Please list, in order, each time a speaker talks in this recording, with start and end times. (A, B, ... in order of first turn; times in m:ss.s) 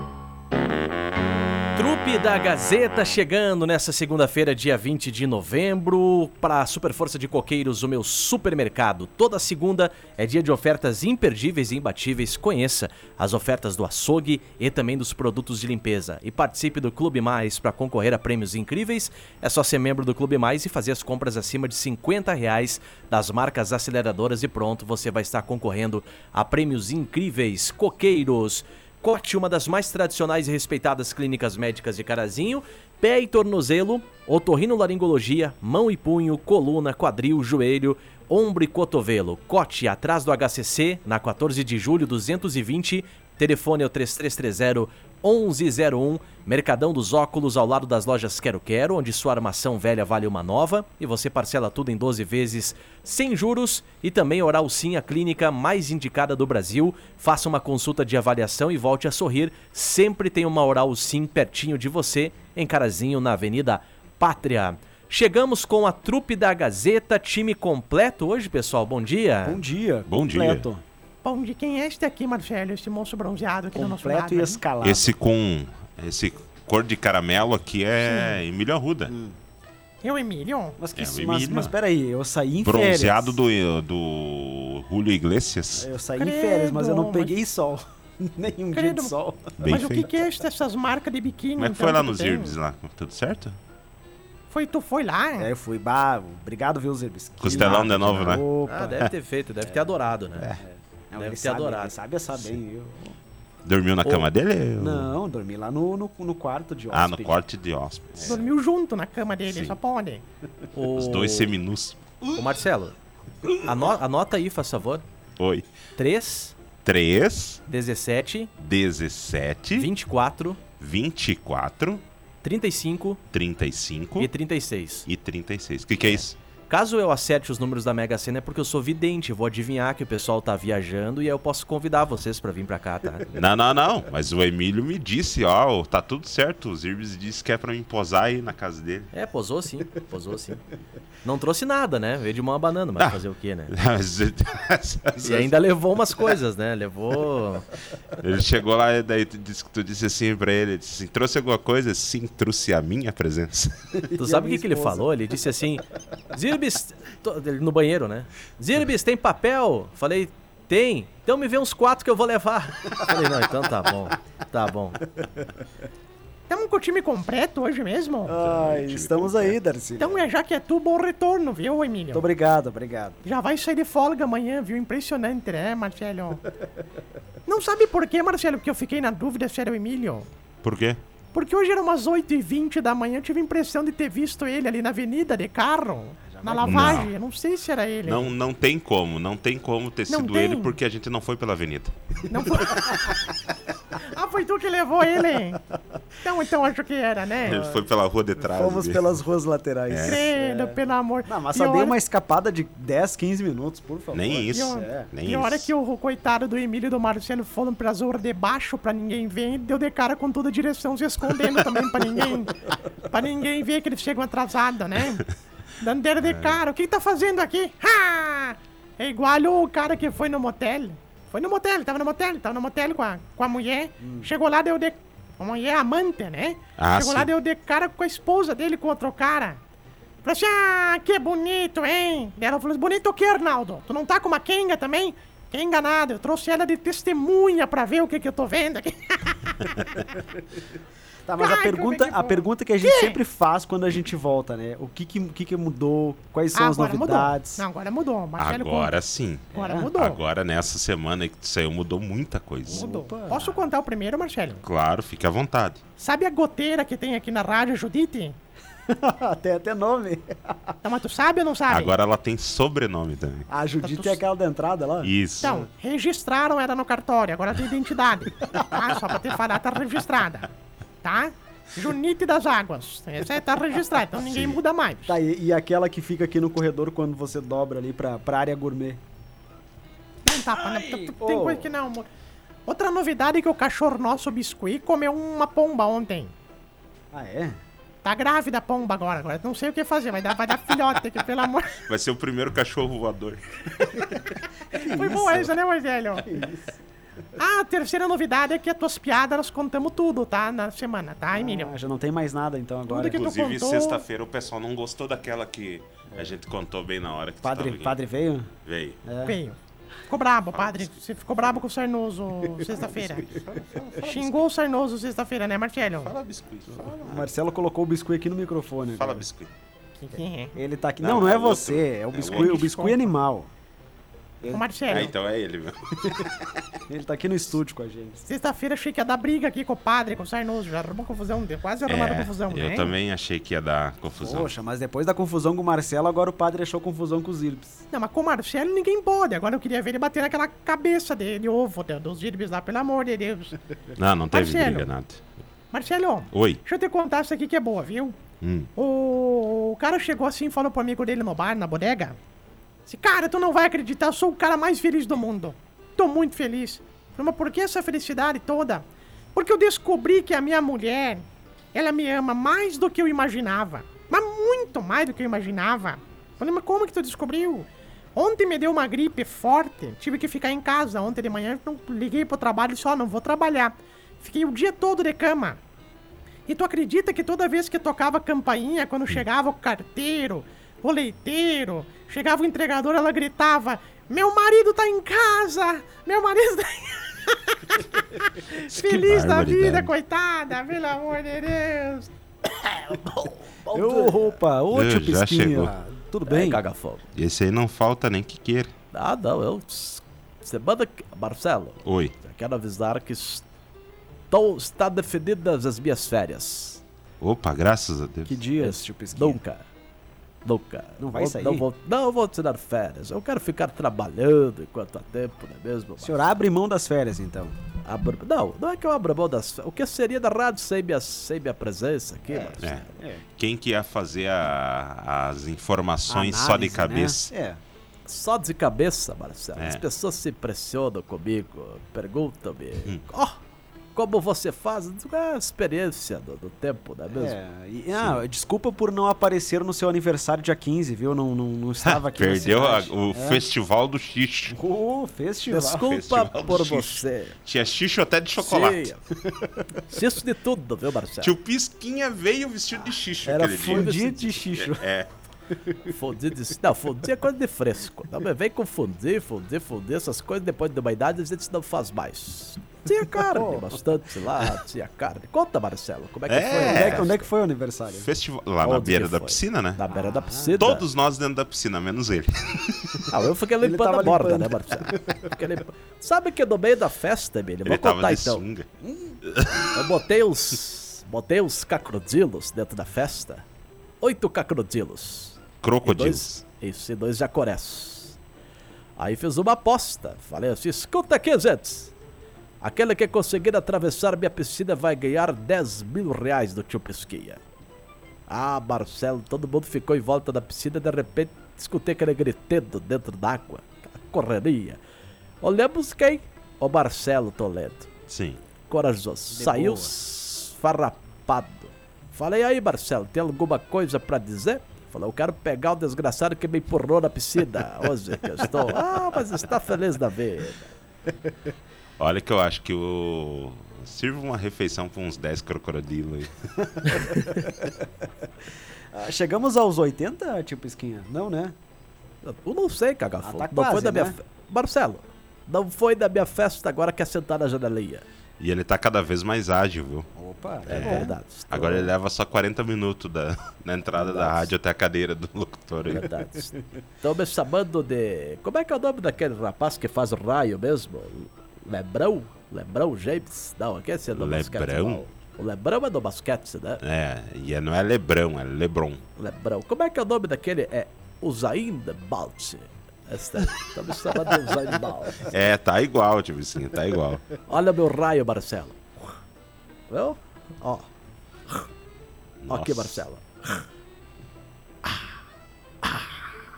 0:01.7-1:09.6 A
1:09.4-1:10.8 B
1:10.1-1:10.6 C
1:11.2-1:14.6 D
1:13.7-1:15.1 B
1:14.8-1:19.1 C
1:18.0-1:18.4 D
1:19.1-1:19.4 B
1:20.0-1:20.8 D
1:20.8-1:23.4 B
1:21.0-1:21.7 C
1:22.6-1:25.9 C
1:25.7-1:30.0 B
1:26.2-1:27.3 D
1:28.7-1:32.6 D
1:29.6-1:30.1 C
1:31.6-1:33.6 C
1:34.5-1:35.5 D
1:35.4-1:39.1 B
1:37.4-1:38.4 C
1:37.5-1:37.9 A
1:38.6-1:40.5 A
1:40.6-1:43.2 B
1:41.2-1:41.9 A
1:43.6-1:45.1 C
1:44.8-1:47.4 B
1:46.9-1:48.5 C
1:48.2-1:48.4 B
1:48.2-1:50.2 D
1:49.4-1:49.8 C
1:50.7-1:51.6 A
1:50.9-1:52.4 C
1:52.3-1:52.9 A
1:53.5-1:55.0 A
1:55.4-1:55.7 C
1:56.0-1:56.5 A
1:56.8-1:57.6 C
1:57.7-1:58.5 A
1:58.6-1:59.9 C
1:59.7-2:00.6 A
2:00.8-2:02.0 C
2:02.4-2:03.2 A
2:03.3-2:04.3 C
2:04.2-2:05.1 A
2:05.1-2:06.4 C
2:06.0-2:13.3 A
2:13.3-2:19.1 C
2:19.1-2:20.6 A
2:21.2-2:23.7 A
2:23.0-2:25.5 C
2:25.2-2:27.7 A
2:28.2-2:33.9 C
2:33.9-2:35.1 B
2:34.2-2:45.0 A
2:46.5-2:48.4 D
2:48.2-2:50.3 B
2:48.3-2:49.6 C
2:50.0-2:52.3 D
2:52.1-2:53.2 B
2:53.2-2:56.4 D
2:57.5-3:00.3 D
3:00.6-3:01.0 C
3:01.3-3:08.3 D
3:06.3-3:07.1 B
3:06.6-3:07.1 C
3:08.0-3:11.9 C
3:10.1-3:10.7 D
3:12.3-3:13.1 D
3:13.9-3:15.6 D
3:16.2-3:17.6 D
3:17.4-3:19.0 C
3:17.4-3:17.8 B
3:18.4-3:25.1 B
3:19.9-3:20.2 C
3:20.0-3:21.9 D
3:24.1-3:25.7 C
3:24.5-3:35.2 D
3:35.8-3:49.6 D
3:44.0-3:44.3 B
3:46.8-3:47.3 C
3:50.2-4:00.1 D
4:01.2-4:07.6 B
4:01.4-4:03.2 D
4:06.5-4:08.9 D
4:08.4-4:12.9 C
4:09.5-4:09.9 B
4:09.5-4:10.2 D
4:12.6-4:13.7 B
4:12.7-4:14.6 D
4:14.6-4:15.8 C
4:16.0-4:18.4 D
4:18.9-4:20.8 B
4:20.8-4:21.9 D
4:21.7-4:23.5 C
4:23.5-4:25.6 B
4:23.8-4:24.2 D
4:25.0-4:25.6 C
4:25.4-4:30.5 D
4:28.5-4:28.9 B
4:31.0-4:35.1 D
4:34.1-4:34.6 C
4:35.0-4:39.0 B
4:40.2-4:42.1 D
4:40.6-4:41.7 B
4:42.7-4:46.3 D
4:47.1-4:47.6 B
4:48.0-4:51.8 D
4:51.8-4:53.4 C
4:54.7-4:56.3 D
4:54.7-4:55.5 B
4:56.2-4:56.8 B
4:57.4-5:01.7 D
5:01.3-5:03.2 B
5:02.8-5:04.0 D
5:03.1-5:07.9 C
5:07.4-5:08.5 B
5:08.6-5:09.0 C
5:09.0-5:09.4 B
5:09.2-5:13.2 D
5:10.5-5:10.9 C
5:12.6-5:14.4 C
5:13.9-5:16.1 D
5:16.0-5:17.3 C
5:16.8-5:19.3 B
5:18.9-5:19.5 C
5:20.0-5:20.5 D
5:20.5-5:23.5 B
5:21.0-5:22.9 C
5:22.3-5:23.0 D
5:24.4-5:25.0 B
5:24.5-5:25.1 D
5:24.9-5:26.5 C
5:26.9-5:28.2 B
5:28.2-5:32.9 D
5:31.9-5:34.5 C
5:34.2-5:37.8 B
5:37.9-5:43.5 D
5:43.9-5:45.2 C
5:44.3-5:44.9 D
5:45.7-5:48.2 D
5:46.3-5:46.6 C
5:48.4-5:48.7 C
5:48.8-5:52.2 D
5:52.8-6:15.6 D
6:16.5-6:32.1 D
6:28.5-6:29.9 C
6:32.7-6:34.4 A
6:33.7-6:36.6 B
6:34.7-6:35.7 C
6:36.3-6:37.0 A
6:37.1-6:38.7 C
6:38.9-6:43.4 A
6:41.8-6:42.1 C
6:44.3-6:46.8 A
6:47.2-6:48.4 C
6:48.3-6:49.4 B
6:48.6-6:49.6 A
6:50.4-6:56.3 A
6:51.0-6:51.6 B
6:56.0-6:57.6 B
6:57.8-7:03.0 A
7:02.3-7:03.2 B
7:03.3-7:07.3 C
7:06.1-7:07.6 B
7:08.0-7:13.4 A
7:09.6-7:09.8 C
7:13.9-7:17.4 A
7:17.1-7:23.4 B
7:21.8-7:24.6 C
7:24.5-7:26.0 B
7:25.5-7:27.4 A
7:25.7-7:28.9 C
7:28.4-7:29.0 A
7:29.2-7:29.6 B
7:29.7-7:31.3 A
7:31.2-7:33.9 C
7:33.2-7:34.8 B
7:33.6-7:34.5 A
7:34.6-7:35.1 C
7:35.8-7:47.3 A
7:43.2-7:43.8 B
7:46.3-7:47.1 C
7:46.4-7:48.1 B
7:48.0-7:49.8 C
7:48.6-7:50.8 A
7:49.9-7:50.6 B
7:50.6-7:53.1 C
7:53.1-7:58.4 A
7:53.6-7:55.2 B
7:57.6-7:58.6 C
7:58.8-7:59.2 B
7:59.2-7:59.7 C
7:59.7-8:03.4 A
8:04.0-8:08.2 A
8:05.6-8:06.4 C
8:09.0-8:11.9 A
8:12.6-8:17.4 A
8:18.3-8:24.8 A
8:25.4-8:27.9 A
8:28.1-8:28.4 C
8:28.7-8:40.7 A
8:29.3-8:29.9 B
8:42.0-8:46.3 C
8:46.8-8:47.8 B
8:48.9-8:51.6 B
8:52.2-8:58.0 A
8:53.2-8:54.2 B
8:58.4-9:00.1 C
9:00.2-9:01.1 B
9:00.6-9:06.1 C
9:00.7-9:01.9 A
9:03.9-9:04.5 A
9:05.8-9:16.8 A
9:14.1-9:15.0 C
9:16.8-9:19.0 C
9:19.2-9:25.3 A
9:25.2-9:27.3 C
9:27.5-9:29.1 A
9:29.9-9:30.9 A
9:32.4-9:33.0 C
9:32.5-9:33.6 A
9:35.8-9:36.2 A